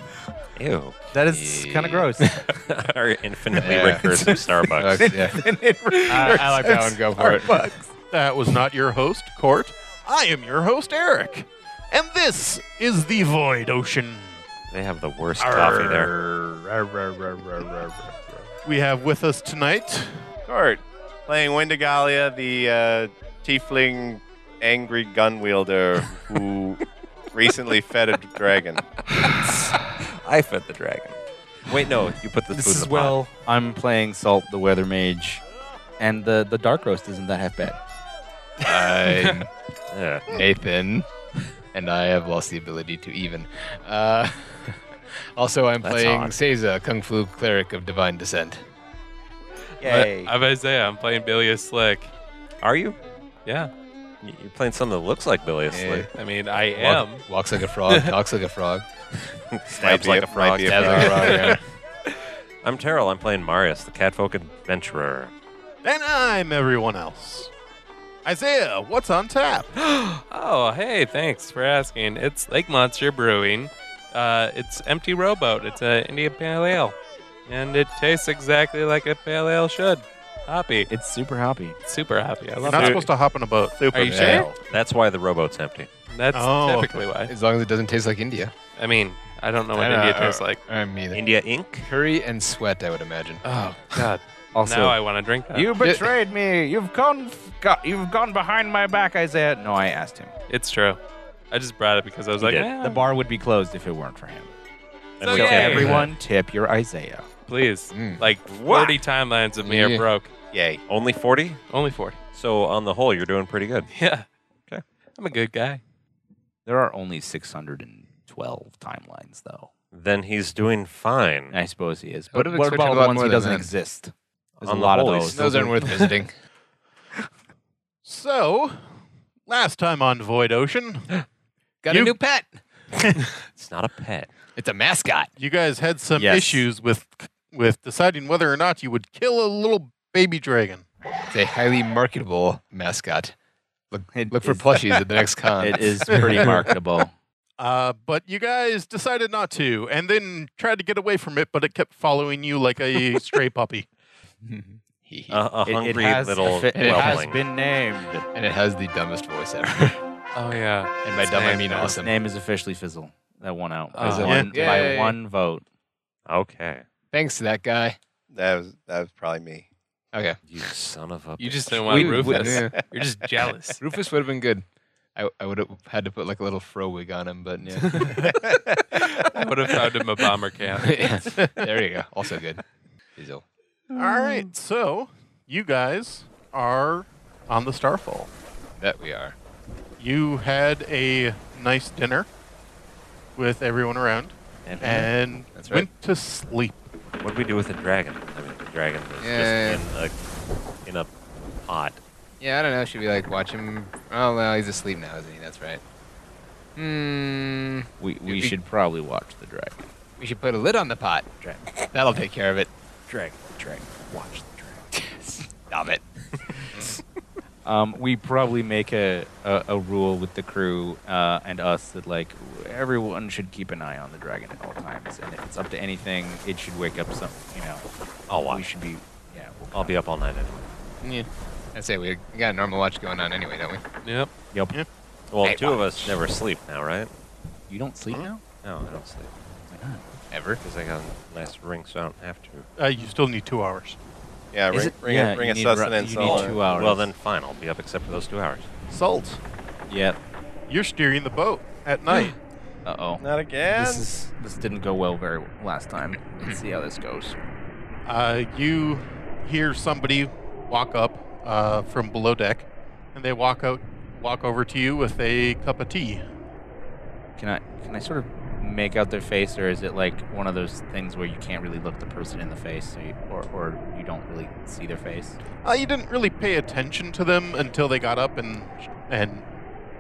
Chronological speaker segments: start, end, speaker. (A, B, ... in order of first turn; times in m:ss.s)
0:00.6-0:01.0 A
0:01.1-0:02.3 B
0:01.3-0:02.5 C
0:02.5-0:05.1 A
0:03.6-0:05.5 C
0:03.7-0:07.8 B
0:06.0-0:07.7 C
0:08.1-0:14.4 D
0:14.7-0:16.1 A
0:15.4-0:18.1 C
0:18.6-0:20.3 D
0:20.5-0:26.8 E
0:27.3-0:28.8 E
0:30.0-0:33.2 A
0:32.5-0:35.4 B
0:36.0-0:37.8 B
0:38.6-0:39.5 C
0:39.1-0:39.4 F
0:39.9-0:40.3 A
0:40.3-0:41.1 C
0:41.7-0:44.8 C
0:45.4-0:48.6 C
0:45.8-0:46.4 A
0:49.8-0:50.2 B
0:49.8-0:50.1 C
0:49.8-0:52.1 F
0:52.6-0:53.0 A
0:53.4-0:53.7 F
0:54.2-0:56.1 A
0:55.7-0:56.1 C
0:56.1-0:58.2 F
0:56.7-0:58.9 C
0:59.5-1:01.6 A
0:59.7-1:01.5 E
1:00.7-1:01.6 C
1:01.2-1:01.6 F
1:02.6-1:05.3 A
1:05.8-1:07.5 D
1:08.2-1:09.7 D
1:09.8-1:20.9 F
1:20.9-1:21.8 B
1:21.8-1:23.1 F
1:22.6-1:24.4 D
1:23.9-1:24.5 E
1:23.9-1:24.5 F
1:23.9-1:24.5 C
1:24.7-1:25.9 A
1:26.1-1:27.3 F
1:26.3-1:27.0 D
1:27.3-1:28.5 C
1:28.8-1:30.6 F
1:29.7-1:31.2 C
1:31.1-1:31.9 A
1:31.8-1:33.4 C
1:33.4-1:33.8 B
1:33.9-1:35.8 F
1:34.5-1:35.0 B
1:35.5-1:40.4 B
1:35.8-1:36.1 C
1:40.5-1:41.0 F
1:41.5-1:43.0 F
1:42.4-1:42.7 A
1:42.8-1:44.5 B
1:45.2-1:46.1 A
1:45.2-1:46.0 F
1:45.3-1:47.3 B
1:47.5-1:50.3 F
1:47.9-1:48.2 C
1:48.5-1:49.0 A
1:49.6-1:50.1 C
1:50.5-1:50.8 E
1:50.9-1:51.6 A
1:51.7-1:52.2 F
1:52.3-1:53.9 A
1:53.9-1:55.8 F
1:56.7-1:59.7 B
1:59.9-2:01.6 A
2:01.5-2:06.0 B
2:02.3-2:03.7 C
2:04.6-2:05.6 A
2:05.3-2:06.4 C
2:08.0-2:08.9 D
2:09.5-2:11.1 D
2:11.8-2:13.2 C
2:11.9-2:12.2 D
2:13.5-2:14.3 A
2:14.6-2:15.3 C
2:15.4-2:20.9 D
2:16.2-2:16.7 B
2:21.3-2:23.3 C
2:23.9-2:26.6 C
2:24.1-2:27.1 B
2:27.6-2:33.9 D
2:34.4-2:35.4 C
2:35.3-2:37.4 A
2:35.6-2:38.3 B
2:36.7-2:37.4 C
2:38.3-2:40.0 C
2:40.4-2:42.0 F
2:41.0-2:42.2 C
2:41.8-2:45.6 B
2:44.0-2:44.8 F
2:44.0-2:45.2 C
2:44.3-2:44.5 D
2:46.3-2:46.9 A
2:47.1-2:48.0 C
2:48.3-2:49.7 E
2:50.1-2:50.4 C
2:50.5-2:52.5 A
2:51.4-2:53.8 F
2:51.4-2:52.8 C
2:53.8-2:58.4 C
2:57.8-2:58.3 F
2:59.2-3:01.5 F
3:00.8-3:02.6 C
3:03.2-3:03.4 C
3:03.9-3:08.3 D
3:04.0-3:04.5 F
3:08.8-3:09.4 C
3:10.0-3:12.3 D
3:13.4-3:16.8 D
3:14.7-3:15.9 C
3:17.2-3:20.1 A
3:19.2-3:19.8 C
3:21.6-3:22.0 A
3:22.4-3:25.8 C
3:26.8-3:28.6 C
3:28.0-3:29.8 B
3:30.2-3:32.7 C
3:33.1-3:34.8 B
3:34.9-3:36.0 C
3:36.7-3:37.0 C
3:37.6-3:50.0 B
3:48.3-3:48.6 A
3:49.7-3:50.7 A
3:51.0-3:53.8 C
3:54.0-3:54.3 F
3:54.5-3:54.8 B
3:55.3-3:57.1 A
3:55.4-3:56.1 C
3:57.7-3:58.3 B
3:58.6-3:59.3 A
3:59.7-4:00.2 B
4:00.3-4:00.6 C
4:00.6-4:02.7 A
4:02.8-4:04.0 D
4:04.5-4:06.6 E
4:04.7-4:07.1 B
4:06.2-4:08.7 A
4:08.9-4:09.4 D
4:09.9-4:10.2 B
4:10.7-4:12.4 D
4:12.8-4:17.4 B
4:13.2-4:14.1 E
4:18.0-4:26.2 D
4:27.4-4:35.4 B
4:35.6-4:39.5 D